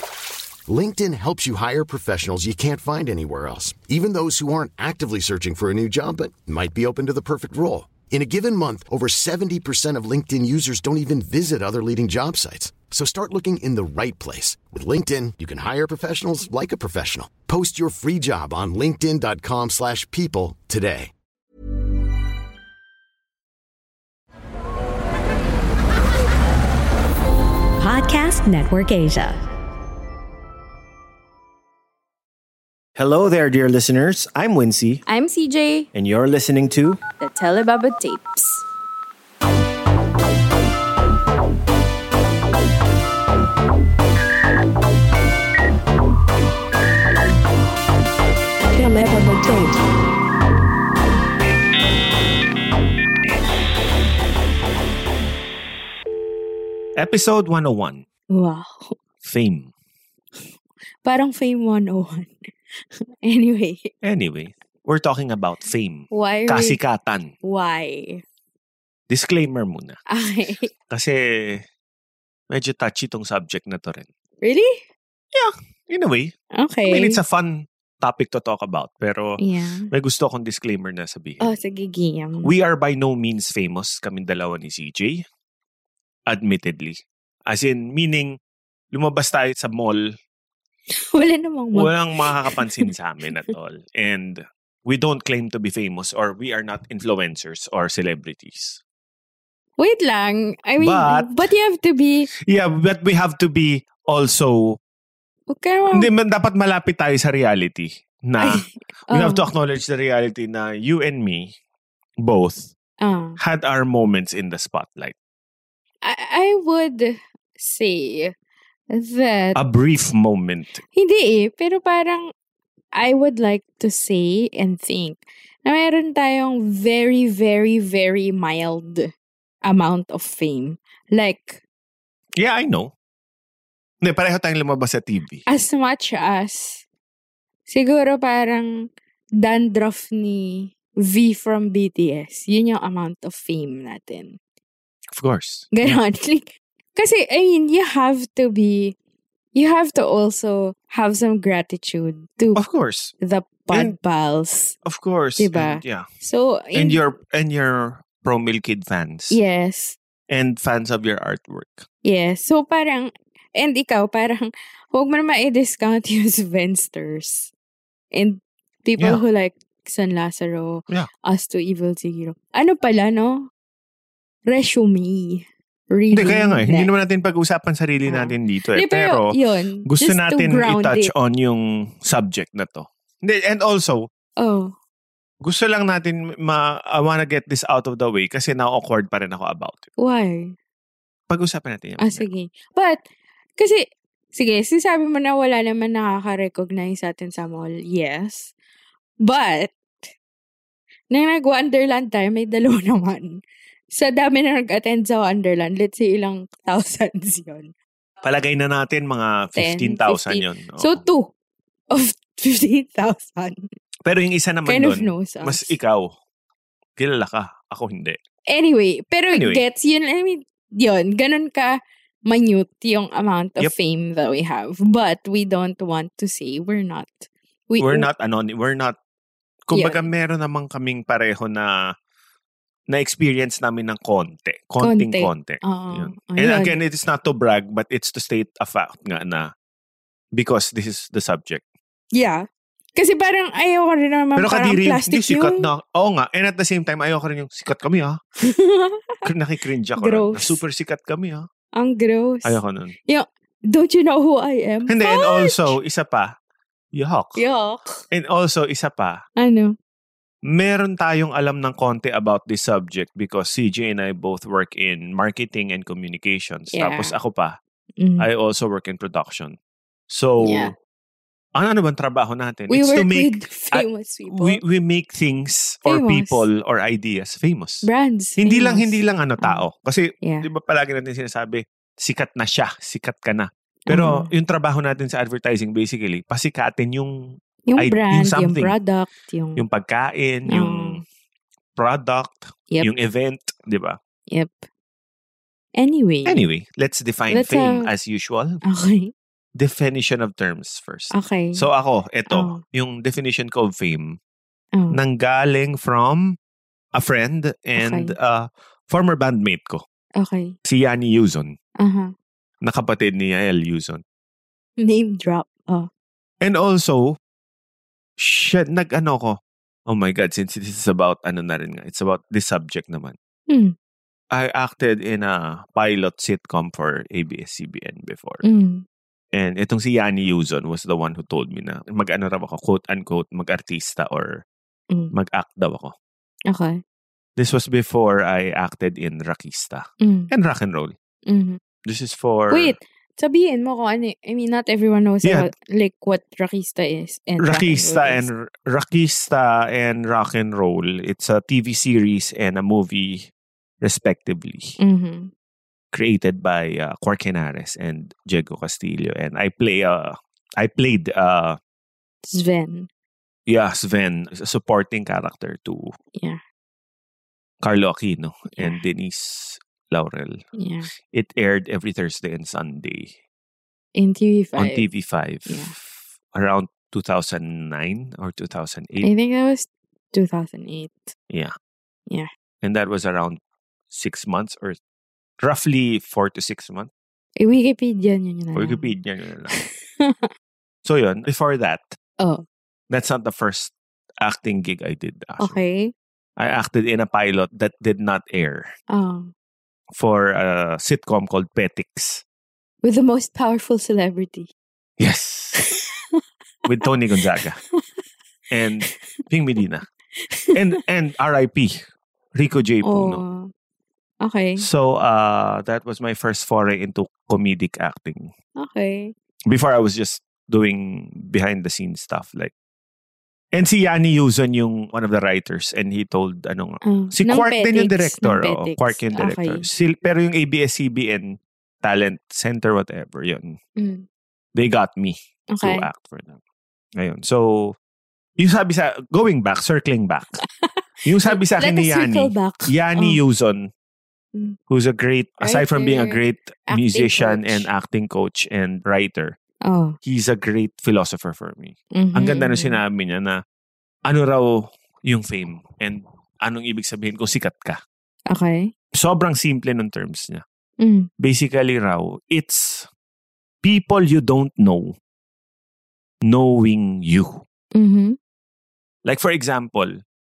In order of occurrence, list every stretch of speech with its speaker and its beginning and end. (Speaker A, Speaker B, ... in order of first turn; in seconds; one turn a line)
Speaker A: 0.7-21.1
Speaker B: 27.9-29.4
Speaker C: 33.0-35.0
Speaker B: 35.1-35.9
Speaker C: 35.9-37.0
Speaker B: 37.2-38.6
Speaker B: 48.7-49.8
Speaker C: 57.0-58.0
Speaker B: 58.3-59.0
Speaker C: 59.2-59.7
Speaker B: 61.0-62.4
Speaker B: 63.2-63.9
Speaker C: 64.0-67.3
Speaker B: 66.1-66.8
Speaker B: 67.4-68.2
Speaker C: 69.1-70.0
Speaker B: 70.1-70.7
Speaker C: 70.9-71.6
Speaker C: 72.5-74.1
Speaker B: 74.4-74.8
Speaker C: 75.3-76.3
Speaker B: 76.6-77.2
Speaker C: 76.9-79.4
Speaker B: 79.4-79.9
Speaker C: 79.9-81.5
Speaker B: 81.4-82.5
Speaker C: 82.4-85.2
Speaker C: 86.3-88.3
Speaker C: 88.9-90.0
Speaker B: 91.0-92.9
Speaker C: 91.7-98.8
Speaker B: 99.8-102.3
Speaker C: 100.8-101.5
Speaker C: 102.4-104.8
Speaker B: 105.5-106.1
Speaker C: 105.9-111.5
Speaker B: 108.4-109.5
Speaker C: 112.2-112.7
Speaker B: 113.0-113.4
Speaker C: 113.4-115.1
Speaker B: 116.0-118.3
Speaker B: 118.9-119.6
Speaker C: 119.5-120.8
Speaker B: 120.9-122.3
Speaker B: 122.9-129.1
Speaker B: 129.6-131.6
Speaker C: 132.4-132.9
Speaker C: 134.0-135.4
Speaker B: 135.5-136.8
Speaker B: 137.7-138.7
Speaker B: 139.4-144.4
Speaker C: 145.2-146.0
Speaker B: 145.7-148.9
Speaker B: 149.5-152.6
Speaker C: 152.6-153.1
Speaker B: 153.2-154.8
Speaker C: 154.9-156.1
Speaker B: 155.4-157.0
Speaker C: 156.8-159.4
Speaker B: 159.3-160.0
Speaker C: 160.3-161.8
Speaker B: 162.0-167.5
Speaker B: 168.1-173.5
Speaker B: 174.5-176.9
Speaker C: 176.1-179.3
Speaker B: 178.1-181.1
Speaker C: 179.9-184.1
Speaker B: 184.4-184.7
Speaker C: 185.4-189.8
Speaker B: 190.0-190.6
Speaker C: 191.3-192.2
Speaker B: 192.0-193.0
Speaker B: 193.6-198.5
Speaker B: 199.2-199.7
Speaker B: 201.1-203.3
Speaker B: 203.9-207.7
Speaker C: 208.2-211.0
Speaker B: 209.6-211.3
Speaker B: 211.9-213.7
Speaker C: 214.1-216.1
Speaker B: 214.7-215.7
Speaker C: 217.0-218.2
Speaker B: 218.5-228.1
Speaker C: 219.3-219.6
Speaker C: 227.8-229.0
Speaker C: 229.7-231.9
Speaker B: 229.7-230.0
Speaker C: 232.9-239.5
Speaker B: 234.8-236.8
Speaker C: 240.3-241.6
Speaker B: 242.2-245.7
Speaker C: 244.4-248.2
Speaker B: 248.4-249.2
Speaker C: 249.2-251.5
Speaker B: 250.0-250.6
Speaker B: 251.8-255.8
Speaker C: 252.4-252.9
Speaker C: 254.9-256.3
Speaker C: 256.9-257.4
Speaker B: 257.4-257.9
Speaker C: 258.1-259.2
Speaker B: 259.4-259.8
Speaker C: 260.5-267.6
Speaker B: 266.7-267.1
Speaker B: 268.0-268.3
Speaker C: 268.2-269.6
Speaker C: 270.1-270.7
Speaker B: 270.4-270.7
Speaker C: 271.6-277.9
Speaker B: 272.7-274.6
Speaker B: 275.9-276.4
Speaker B: 277.8-279.6
Speaker C: 278.4-287.2
Speaker B: 283.9-284.3
Speaker B: 287.7-289.6
Speaker C: 287.8-288.8
Speaker C: 289.6-291.0
Speaker B: 290.5-291.0
Speaker C: 291.8-294.0
Speaker B: 294.3-294.7
Speaker B: 295.8-296.4
Speaker C: 296.3-298.6
Speaker B: 297.3-297.9
Speaker B: 298.7-299.1
Speaker C: 299.6-304.2
Speaker B: 301.1-301.7
Speaker B: 302.3-302.6
Speaker C: 304.9-306.4
Speaker C: 306.9-309.8
Speaker B: 307.8-308.1
Speaker B: 310.2-310.6
Speaker C: 310.7-311.5
Speaker B: 311.8-312.1
Speaker C: 312.6-314.0
Speaker B: 314.8-315.9
Speaker C: 316.4-317.2
Speaker C: 318.2-323.1
Speaker B: 323.5-323.8
Speaker C: 324.3-328.4
Speaker B: 328.4-328.9
Speaker C: 329.3-334.4
Speaker C: 335.1-335.9
Speaker B: 336.5-336.8
Speaker C: 337.4-340.9
Speaker B: 340.0-340.3
Speaker B: 341.3-341.6
Speaker C: 341.9-342.8
Speaker B: 342.5-348.3
Speaker C: 345.2-345.5
Speaker C: 347.4-353.3
Speaker C: 353.8-354.8
Speaker B: 354.8-355.3
Speaker C: 355.9-361.6
Speaker B: 362.3-362.9
Speaker C: 363.5-365.9
Speaker C: 367.6-370.4
Speaker B: 368.6-368.8
Speaker B: 370.6-370.9
Speaker C: 371.1-373.1
Speaker B: 374.0-374.9
Speaker C: 374.6-375.8
Speaker B: 375.5-375.7
Speaker C: 376.3-379.1
Speaker B: 379.0-381.1
Speaker C: 382.6-383.4
Speaker C: 383.9-384.8
Speaker C: 385.4-386.9
Speaker B: 387.4-388.9
Speaker C: 388.6-389.6
Speaker B: 389.5-390.3
Speaker C: 390.9-392.0
Speaker C: 392.9-395.6
Speaker B: 395.4-395.9
Speaker C: 396.4-398.7
Speaker B: 398.9-399.3
Speaker C: 399.9-402.2
Speaker B: 402.8-404.5
Speaker C: 405.0-405.6
Speaker B: 405.6-405.9
Speaker C: 406.7-407.6
Speaker C: 408.5-409.9
Speaker B: 410.3-410.6
Speaker C: 410.6-411.8
Speaker C: 412.4-413.2
Speaker B: 412.8-413.5
Speaker B: 414.2-414.7
Speaker C: 414.6-418.3
Speaker B: 418.6-419.1
Speaker C: 419.5-422.5
Speaker C: 423.5-433.6
Speaker B: 426.9-429.7
Speaker B: 433.8-434.1
Speaker C: 434.6-436.4
Speaker B: 435.5-435.9
Speaker C: 437.0-437.8
Speaker C: 438.4-440.4
Speaker C: 441.1-443.7
Speaker B: 441.2-443.2
Speaker C: 444.7-449.4
Speaker B: 445.4-447.7
Speaker B: 449.7-450.0
Speaker C: 450.1-453.4
Speaker B: 452.0-452.8
Speaker C: 454.1-457.8
Speaker B: 458.3-458.7
Speaker C: 458.9-460.4
Speaker B: 460.8-461.1
Speaker C: 461.2-462.9
Speaker C: 463.6-464.9
Speaker C: 466.3-467.4
Speaker B: 467.8-468.2
Speaker C: 469.1-469.9